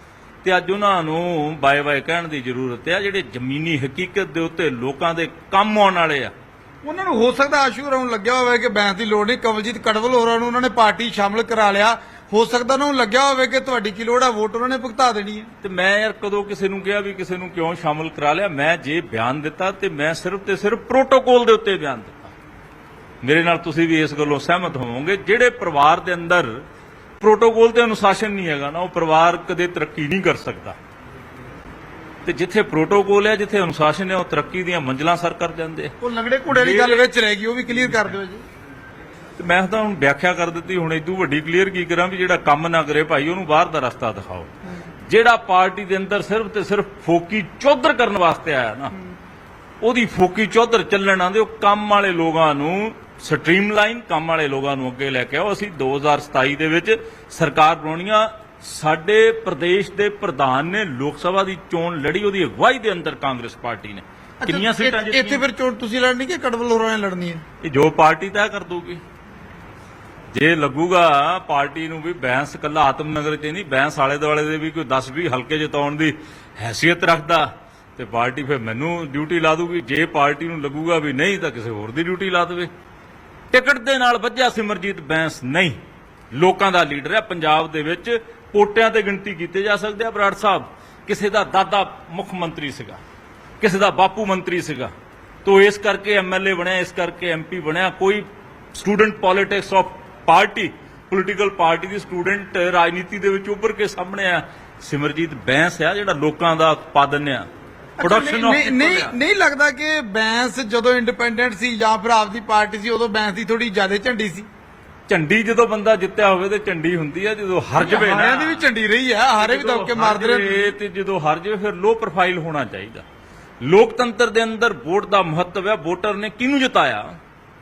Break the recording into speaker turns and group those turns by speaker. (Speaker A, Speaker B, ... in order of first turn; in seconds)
Speaker A: 0.4-6.3, 15.6-22.3, 23.2-26.6, 27.2-30.8, 32.2-35.9, 36.5-37.1, 39.4-44.5, 45.1-48.9, 49.8-65.4, 67.6-69.0, 70.3-82.7, 83.5-85.8, 86.3-93.0, 93.6-94.9, 95.4-107.5, 108.0-109.1, 115.1-118.6, 119.4-123.0, 123.6-127.2
Speaker B: 6.8-15.5, 36.0-38.4, 64.4-67.4, 108.0-114.5, 117.8-120.7